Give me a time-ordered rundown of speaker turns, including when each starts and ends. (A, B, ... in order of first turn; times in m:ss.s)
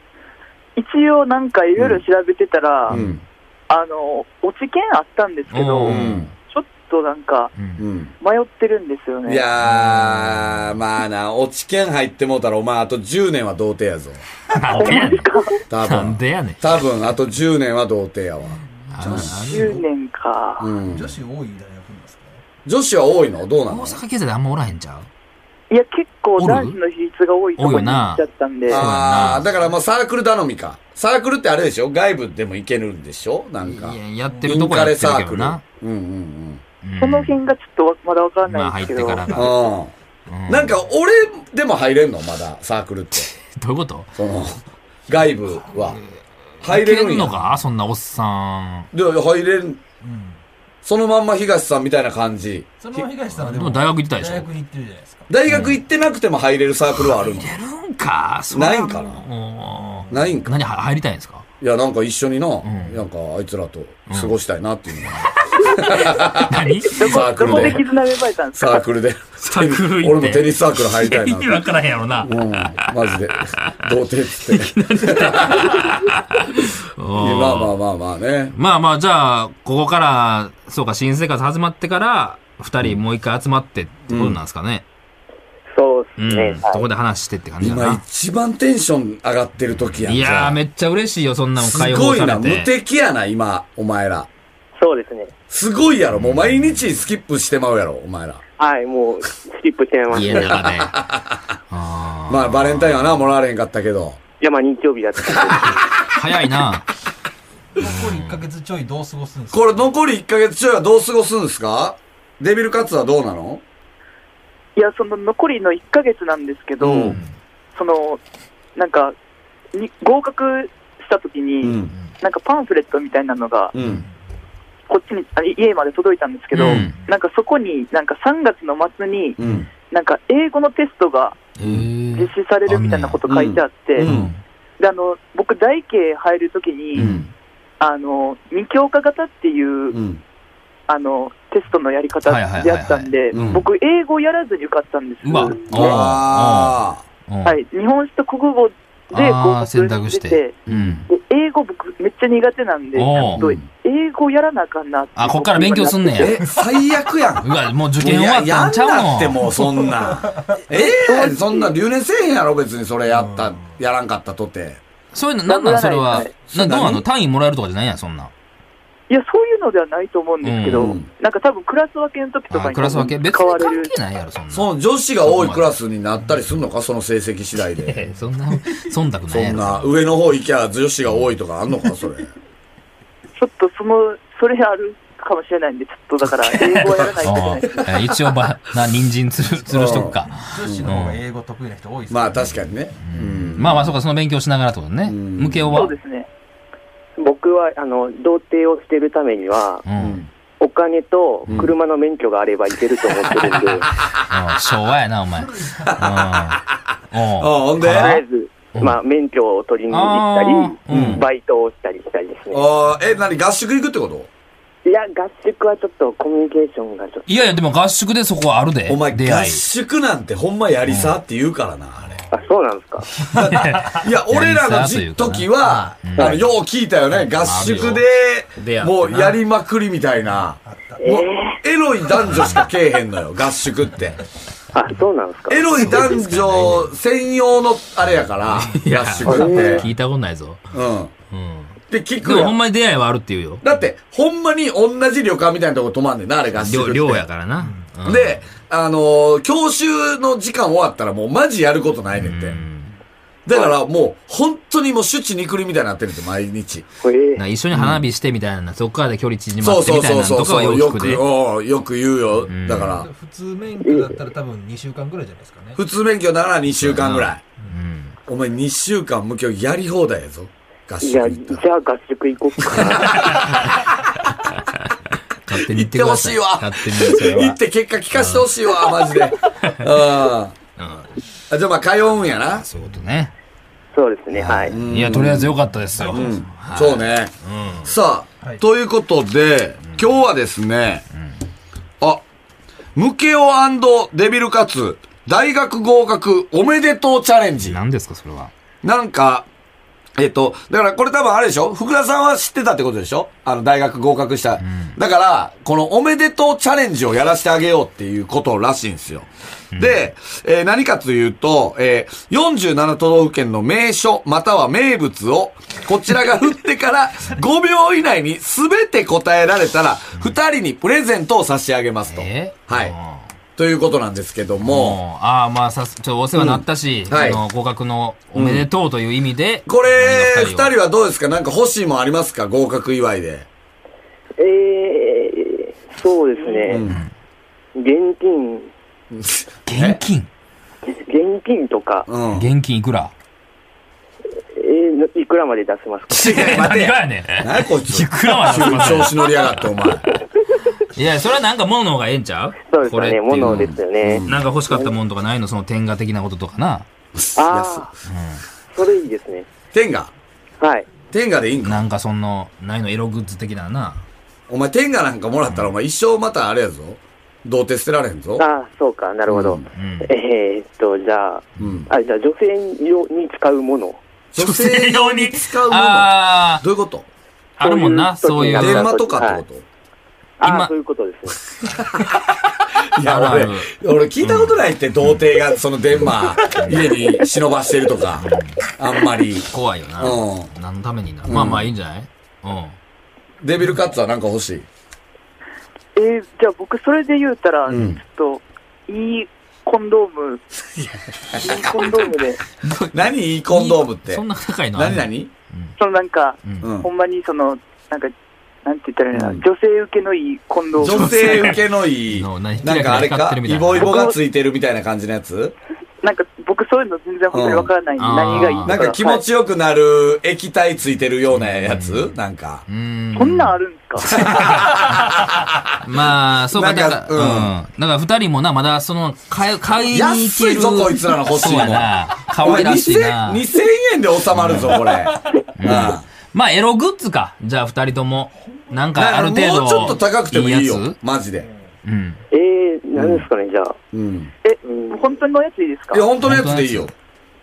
0:00.8-0:03.0 A
0:01.8-0:02.0 B
0:02.9-0:03.2 C
0:02.9-0:03.2 B
0:03.7-0:07.5 A
0:05.5-0:06.3 C
0:05.8-0:06.3 B
0:07.6-0:07.8 C
0:07.8-0:08.1 B
0:08.2-0:09.5 A
0:09.3-0:14.2 B
0:09.6-0:10.8 C
0:14.5-0:15.3 C
0:14.7-0:15.6 A
0:15.7-0:19.4 B
0:15.8-0:16.7 C
0:18.6-0:19.8 D
0:18.9-0:19.8 C
0:19.3-0:20.7 A
0:20.6-0:21.2 B
0:20.9-0:22.4 D
0:22.7-0:24.0 B
0:23.7-0:25.1 C
0:25.7-0:28.9 A
0:26.4-0:26.8 C
0:27.6-0:29.5 C
0:28.7-0:36.6 B
0:29.3-0:29.7 D
0:33.6-0:35.6 C
0:36.8-0:37.4 C
0:37.0-0:39.5 A
0:38.5-0:39.6 C
0:39.3-0:39.9 B
0:40.3-0:40.8 C
0:40.5-0:43.3 B
0:43.4-0:44.1 C
0:44.2-0:46.0 B
0:45.6-0:46.0 D
0:46.6-0:48.9 C
0:46.6-0:47.4 B
0:48.9-0:49.8 B
0:50.0-0:50.4 D
0:50.8-0:52.7 B
0:52.8-0:55.3 D
0:53.4-0:54.5 C
0:55.3-0:57.5 B
0:55.5-0:55.8 C
0:56.9-1:01.4 C
0:58.5-0:59.2 B
1:00.1-1:00.4 D
1:00.1-1:00.5 B
1:01.6-1:07.8 B
1:02.6-1:03.0 C
1:04.1-1:04.4 C
1:05.5-1:07.8 C
1:06.9-1:08.8 A
1:08.5-1:11.6 B
1:09.4-1:13.8 C
1:12.2-1:15.8 B
1:14.5-1:17.8 C
1:17.2-1:18.6 B
1:18.6-1:24.8 C
1:24.1-1:24.4 B
1:25.7-1:26.8 E
1:26.2-1:28.0 C
1:27.6-1:30.6 B
1:30.0-1:32.7 C
1:31.6-1:34.3 B
1:34.8-1:35.3 E
1:35.5-1:38.4 B
1:36.2-1:36.8 C
1:38.6-1:40.7 E
1:40.1-1:41.0 C
1:40.3-1:41.4 B
1:41.7-1:43.2 C
1:42.3-1:44.2 B
1:44.4-1:45.9 E
1:45.4-1:45.8 B
1:46.1-1:46.9 C
1:47.8-1:49.9 D
1:47.8-1:48.4 C
1:49.5-1:53.6 B
1:54.8-1:57.2 A
1:56.8-1:57.2 B
1:57.1-1:57.3 C
1:57.8-1:58.2 A
1:58.8-1:59.2 A
1:59.7-2:03.8 A
2:01.6-2:01.9 B
2:03.8-2:04.1 B
2:04.9-2:11.4 A
2:06.5-2:07.0 C
2:06.6-2:06.9 B
2:09.4-2:09.7 B
2:11.6-2:13.2 C
2:12.2-2:14.1 A
2:13.3-2:14.3 B
2:14.0-2:14.4 C
2:14.8-2:17.1 A
2:17.0-2:17.3 C
2:17.0-2:17.3 B
2:17.8-2:20.0 A
2:19.9-2:20.2 B
2:20.9-2:26.0 A
2:22.3-2:23.6 C
2:23.3-2:23.6 B
2:25.2-2:27.6 C
2:25.7-2:27.0 B
2:27.4-2:30.6 A
2:29.1-2:31.1 C
2:30.7-2:31.0 B
2:31.1-2:36.4 A
2:33.0-2:33.4 C
2:33.2-2:33.7 B
2:35.2-2:36.4 C
2:36.2-2:44.8 B
2:37.4-2:39.5 C
2:39.8-2:40.6 D
2:40.7-2:41.7 A
2:43.1-2:43.6 D
2:45.1-2:48.3 C
2:45.5-2:46.3 A
2:46.5-2:47.0 B
2:49.1-2:53.9 A
2:50.4-2:51.0 C
2:50.7-2:51.1 B
2:52.5-2:55.7 C
2:54.5-2:58.0 B
2:57.8-2:59.9 C
2:59.3-3:02.3 B
3:03.4-3:07.9 A
3:06.5-3:11.2 C
3:09.7-3:10.9 B
3:10.4-3:12.6 D
3:12.1-3:14.0 B
3:13.0-3:16.0 C
3:15.1-3:15.9 B
3:15.7-3:16.3 A
3:17.2-3:19.8 E
3:19.9-3:20.2 C
3:20.0-3:20.3 B
3:20.6-3:24.0 E
3:24.2-3:28.2 C
3:25.4-3:25.9 D
3:25.8-3:26.8 B
3:27.4-3:28.2 B
3:27.8-3:32.7 E
3:29.9-3:31.3 C
3:30.9-3:31.2 B
3:32.5-3:34.3 B
3:34.8-3:37.3 E
3:37.3-3:39.6 C
3:38.9-3:42.2 B
3:40.9-3:41.2 C
3:42.3-3:43.1 E
3:43.3-3:54.2 B
3:43.3-3:46.4 C
3:47.3-3:48.0 C
3:48.6-3:49.4 C
3:50.6-3:51.1 D
3:51.0-3:51.6 E
3:52.3-3:52.6 C
3:54.7-3:55.8 E
3:55.5-3:59.9 B
3:55.8-3:56.9 C
3:58.5-4:00.7 C
3:59.3-3:59.8 E
4:00.7-4:01.1 B
4:01.3-4:03.6 C
4:01.9-4:02.6 B
4:03.6-4:07.3 B
4:06.6-4:08.4 C
4:08.0-4:12.6 B
4:12.2-4:12.9 C
4:13.5-4:16.9 B
4:17.0-4:17.4 E
4:17.4-4:21.2 C
4:17.7-4:18.0 B
4:19.6-4:23.1 B
4:22.5-4:23.0 C
4:23.0-4:25.8 D
4:23.8-4:24.2 E
4:25.8-4:27.4 B
4:26.8-4:28.2 C
4:28.3-4:31.6 B
4:31.0-4:33.6 E
4:32.7-4:33.8 B
4:35.4-4:37.6 C
4:35.6-4:40.6 B
4:38.1-4:38.5 C
4:39.6-4:39.9 C
4:40.8-4:41.1 C
4:41.5-4:42.7 B
4:42.5-4:43.3 C
4:43.9-4:44.8 E
4:44.3-4:47.9 C
4:44.7-4:45.6 B
4:46.0-4:46.4 D
4:46.1-4:47.3 B
4:47.8-4:51.1 B
4:53.0-4:57.8 B
4:57.6-4:58.5 C
4:58.8-4:59.5 B
5:00.2-5:23.0 B
5:04.6-5:05.0 C
5:09.7-5:10.1 C
5:22.1-5:23.2 C
5:23.6-5:25.0 B
5:24.6-5:30.7 C
5:26.4-5:27.4 B
5:28.3-5:28.7 B
5:29.7-5:33.5 B
5:34.4-5:36.8 E
5:36.7-5:37.0 B
5:37.8-5:38.7 E
5:39.1-5:40.0 B
5:39.7-5:40.3 C
5:40.9-5:42.1 E
5:42.1-5:42.5 B
5:42.3-5:43.1 C
5:44.6-5:46.6 E
5:46.1-5:50.1 B
5:46.1-5:49.6 C
5:50.9-5:56.9 C
5:52.6-5:54.9 E
5:53.4-5:54.4 B
5:57.2-5:57.9 B
5:57.4-5:57.9 E
5:58.1-5:58.4 C
5:58.7-5:59.5 E
5:59.7-6:00.1 B
6:00.6-6:00.9 E
6:01.1-6:01.8 B
6:01.6-6:04.0 C
6:04.5-6:08.5 B
6:08.4-6:14.0 E
6:09.3-6:09.6 B
6:09.8-6:10.1 C
6:11.6-6:11.9 B
6:14.3-6:17.1 B
6:14.4-6:16.6 C
6:17.6-6:19.0 C
6:17.6-6:19.4 E
6:18.5-6:19.6 B
6:20.4-6:21.4 E
6:20.4-6:20.7 C
6:21.7-6:22.1 B
6:22.9-6:30.5 B
6:23.0-6:25.2 C
6:26.5-6:27.0 C
6:28.2-6:28.6 C
6:29.5-6:32.8 C
6:31.3-6:31.7 B
6:33.4-6:34.7 B
6:36.0-6:40.4 A
6:37.7-6:38.0 B
6:41.3-6:41.7 B
6:41.3-6:42.4 A
6:42.7-6:44.2 B
6:43.5-6:45.8 C
6:44.8-6:45.3 B
6:45.8-6:48.1 A
6:46.4-6:46.7 C
6:46.6-6:46.9 B
6:48.6-6:51.6 A
6:49.1-6:49.4 B
6:50.8-6:55.6 B
6:50.8-6:54.0 C
6:53.8-6:54.2 A
6:56.0-6:59.2 A
6:57.3-6:57.7 B
6:58.0-6:58.8 C
6:58.6-7:02.6 B
7:01.3-7:02.1 C
7:02.7-7:03.6 C
7:03.2-7:04.1 A
7:04.1-7:05.8 B
7:04.1-7:04.7 C
7:05.8-7:13.4 C
7:06.5-7:07.5 B
7:09.9-7:16.0 B
7:14.3-7:14.8 C
7:15.6-7:21.0 C
7:19.0-7:21.5 B
7:21.8-7:22.2 C
7:22.3-7:23.8 E
7:23.0-7:23.3 B
7:23.9-7:24.3 B
7:24.4-7:26.1 A
7:24.6-7:25.0 E
7:25.9-7:26.9 B
7:26.2-7:26.9 C